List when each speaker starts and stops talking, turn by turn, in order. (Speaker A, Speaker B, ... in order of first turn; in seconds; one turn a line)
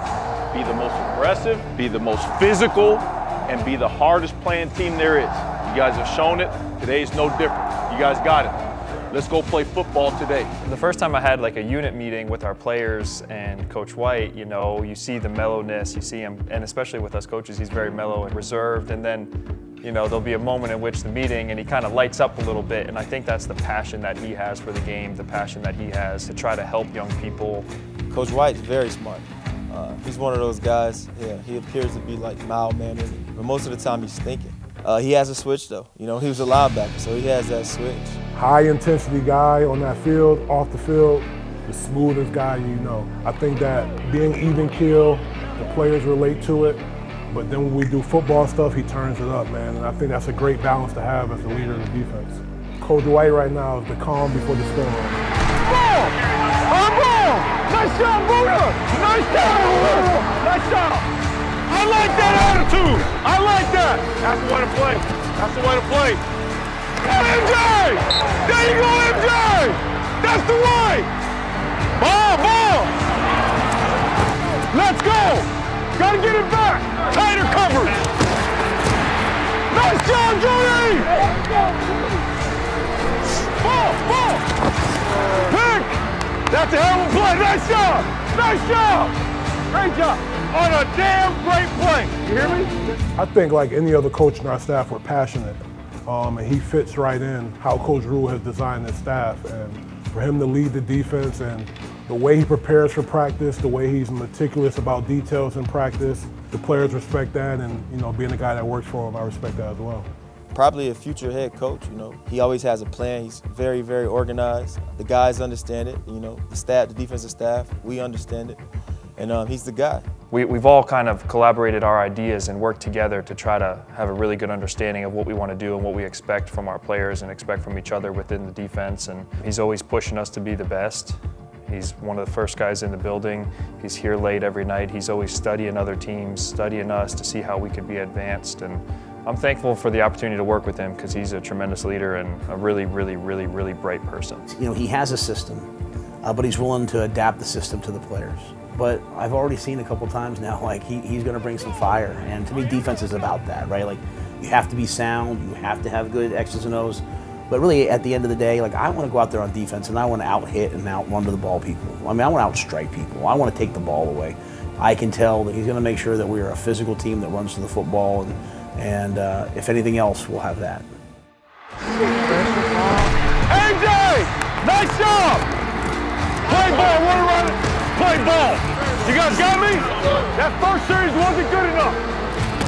Speaker A: 0.5-8.6
Speaker A: 9.1-10.5
Speaker B: 10.6-19.3
Speaker B: 19.8-27.7
Speaker C: 28.1-38.2
Speaker D: 38.3-55.2
Speaker A: 55.7-56.1
Speaker C: 56.7-60.9
Speaker A: 56.7-57.5
Speaker A: 59.2-59.8
Speaker A: 62.4-66.2
Speaker C: 63.1-63.7
Speaker A: 67.5-67.9
Speaker C: 68.5-69.5
Speaker A: 68.9-69.4
Speaker C: 70.3-70.8
Speaker A: 72.0-72.8
Speaker C: 74.7-75.0
Speaker A: 76.2-77.9
Speaker C: 79.7-81.0
Speaker A: 80.1-81.0
Speaker A: 83.6-84.5
Speaker A: 85.5-85.9
Speaker A: 86.5-89.2
Speaker A: 89.7-92.7
Speaker D: 93.2-110.1
Speaker C: 110.5-118.6
Speaker C: 119.2-120.0
Speaker B: 120.3-144.5
Speaker E: 144.5-145.7
Speaker E: 146.2-170.9
Speaker A: 173.5-175.5
Speaker A: 176.4-182.0